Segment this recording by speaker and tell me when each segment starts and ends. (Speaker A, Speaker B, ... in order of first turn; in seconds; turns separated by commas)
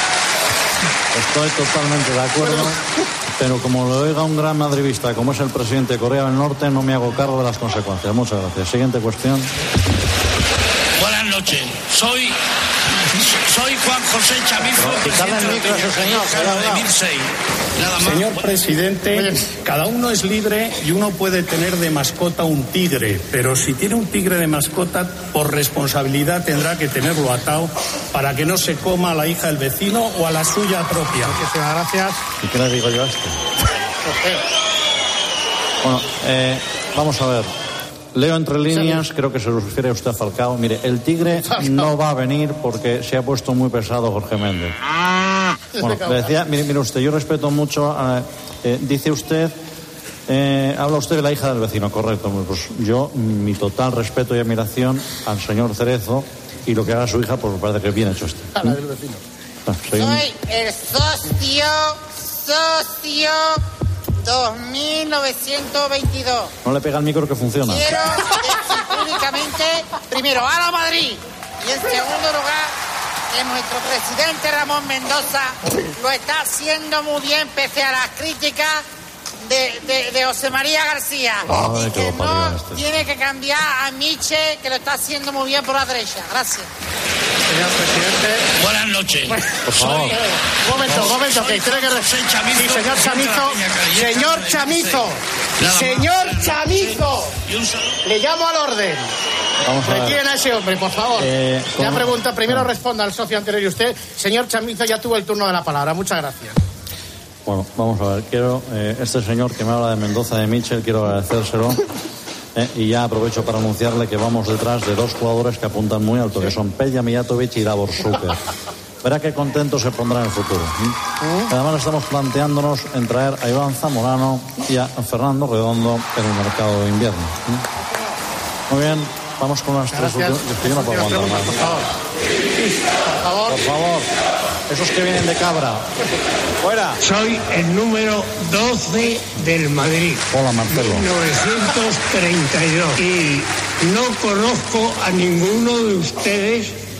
Speaker A: 1.1-2.8, Speaker A: 3.4-9.5, Speaker B: 11.0-12.4, Speaker B: 13.1-18.4, Speaker A: 14.8-16.8, Speaker C: 18.0-31.4, Speaker D: 31.4-32.2, Speaker A: 32.4-33.4, Speaker D: 34.1-34.3, Speaker A: 35.8-37.5, Speaker A: 38.1-44.7, Speaker D: 38.7-39.0, Speaker D: 41.5-41.9, Speaker D: 45.8-46.3, Speaker A: 45.8-49.5, Speaker A: 50.3-58.8, Speaker A: 59.7-60.2, Speaker E: 60.0-63.6, Speaker E: 64.2-66.5, Speaker A: 66.6-67.8, Speaker E: 67.7-72.7, Speaker E: 73.3-78.8, Speaker E: 79.4-86.7, Speaker A: 81.5-82.8, Speaker D: 87.6-88.4, Speaker B: 88.6-89.3, Speaker D: 89.3-95.2, Speaker A: 89.6-90.2, Speaker B: 90.9-98.0, Speaker D: 95.7-97.3, Speaker D: 98.0-99.1, Speaker A: 99.6-100.2, Speaker D: 99.8-106.5, Speaker A: 101.2-102.7, Speaker A: 107.5-111.8, Speaker A: 112.5-118.4, Speaker A: 119.0-121.0, Speaker A: 121.5-127.6, Speaker A: 128.7-131.8, Speaker A: 133.5-134.1, Speaker A: 134.7-135.8, Speaker A: 136.6-137.0, Speaker F: 137.0-146.7, Speaker A: 140.3-141.1